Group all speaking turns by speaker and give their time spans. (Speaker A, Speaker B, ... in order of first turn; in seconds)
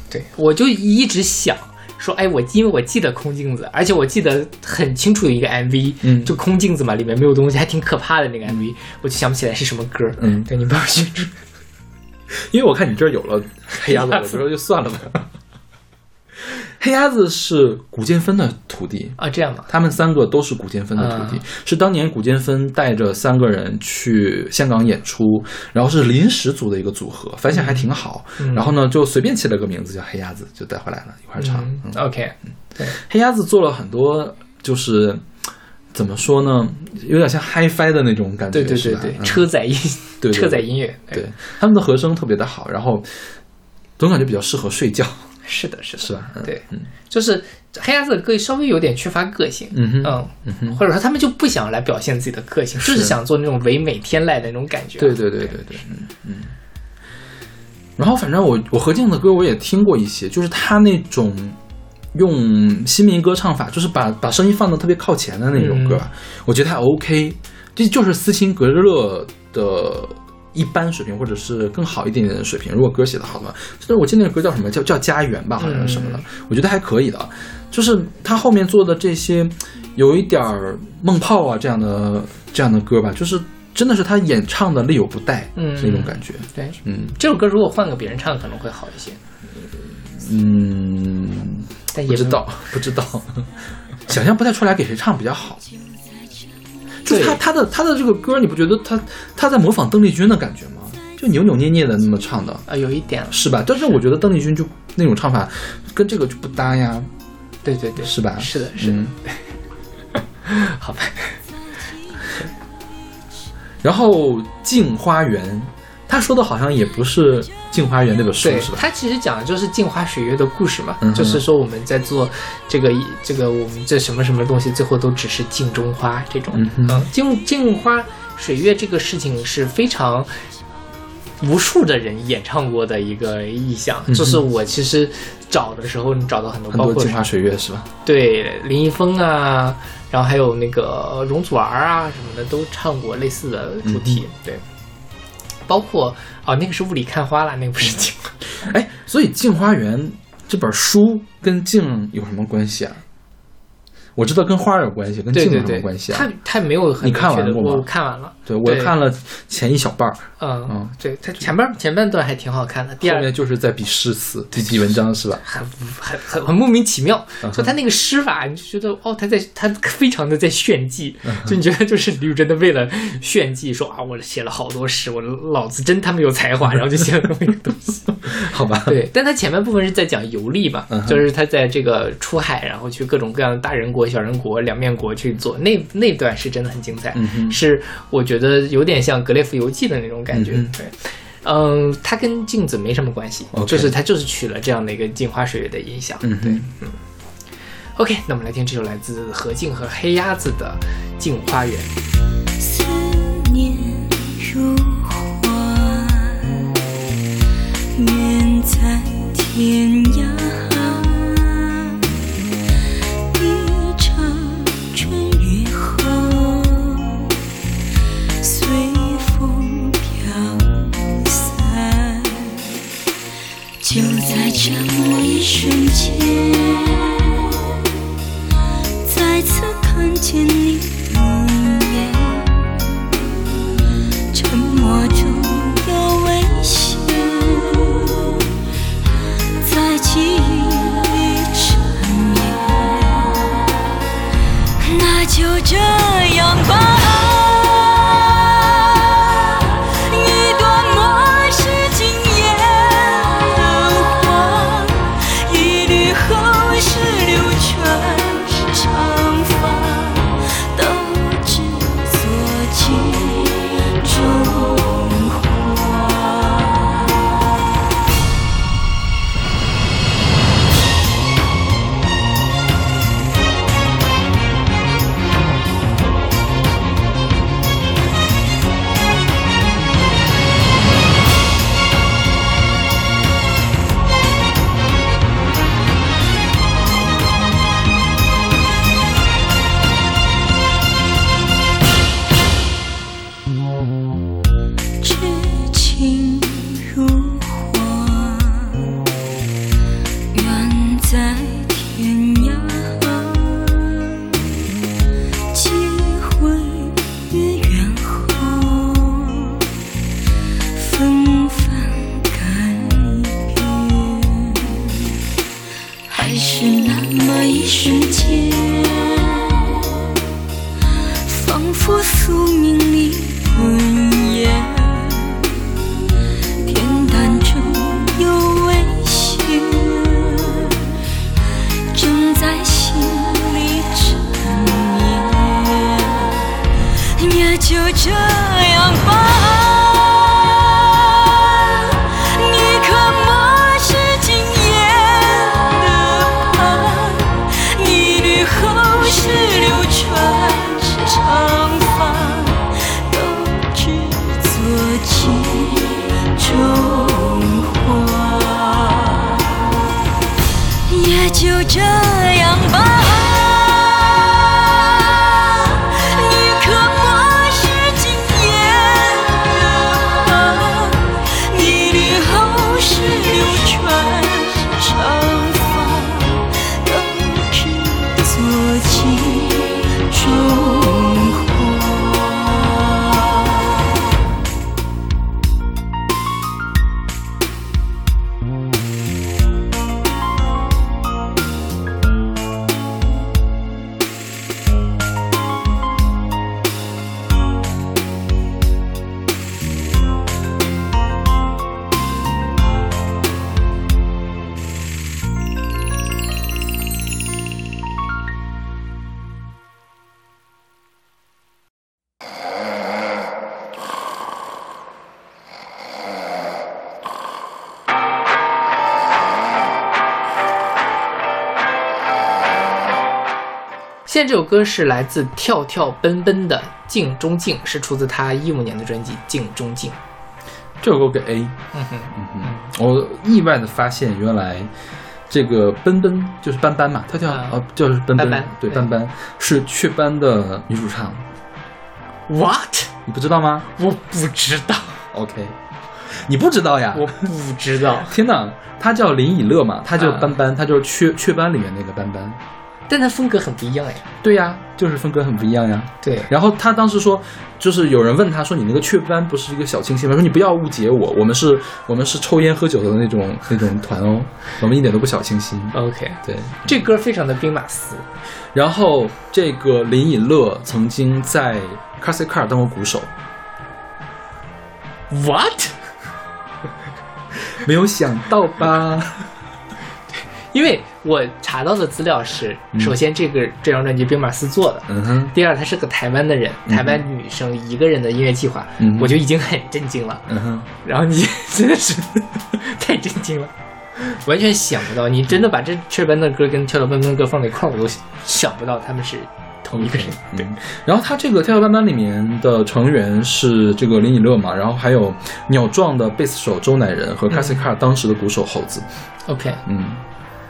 Speaker A: 0.1-11.4, 13.7-14.4, 19.2-19.7, 20.9-21.4, 27.5-27.9, 28.4-28.7, 31.4-33.0, 38.5-41.2, 45.5-55.6, 65.5-66.0, 75.6-76.2, 85.5-89.4, 91.9-92.4, 97.1-97.4, 102.7-103.9, 107.6-109.4, 110.5-111.4, 118.4-130.3, 131.4-137.3, 138.0-144.6, 145.7-148.3, 155.3-158.9, 160.4-163.3, 165.4-178.2, 178.9-197.0, 197.9-201.9, 424.1-430.0, 431.7-432.7, 437.3-437.6, 438.1-438.9, 442.3-442.9, 443.7-445.0, 446.9-448.2, 450.0-450.3, 452.9-454.1, 456.0-456.3, 465.7-468.0, 475.1-475.8, 480.1-490.3, 490.8-500.6, 507.3-507.6, 509.3-509.6
Speaker B: 6.0-6.3, 10.2-10.5, 12.3-15.2, 16.4-32.0, 33.0-35.3, 35.9-39.5, 40.2-43.1, 44.0-45.3, 46.0-46.9, 49.7-50.8, 52.8-53.1, 55.0-56.5, 58.0-61.6, 62.1-87.1, 90.2-95.6, 97.0-102.7, 103.3-107.1, 108.0-109.1, 113.8-118.9, 121.0-121.4, 126.5-127.1, 134.1-134.4, 136.7-137.9, 143.8-144.2, 148.6-153.0, 154.2-156.3, 157.0-157.9, 158.4-160.9, 163.0-165.4, 167.4-167.7, 178.3-179.0, 180.9-181.2, 187.1-187.6, 190.3-190.7, 193.5-193.9, 196.2-196.7, 430.8-431.6, 432.1-434.7, 435.3-441.2, 443.1-443.7, 445.1-447.3, 448.0-452.4, 454.2-466.8, 468.5-473.1, 477.5-479.3, 484.9-485.3, 486.7-487.0, 488.8-489.2, 490.3-490.7, 499.7-508.9, 509.6-510.0
Speaker C: 95.9-96.5, 202.6-206.7, 207.9-212.0, 213.3-217.3, 218.4-222.7, 223.8-227.4, 229.0-233.1, 234.3-238.5, 239.6-243.7, 244.8-267.1, 295.0-298.9, 300.3-304.2, 305.5-309.6, 310.7-315.0, 316.1-319.8, 321.2-325.6, 326.6-330.9, 331.9-336.5, 337.1-359.6, 360.9-383.1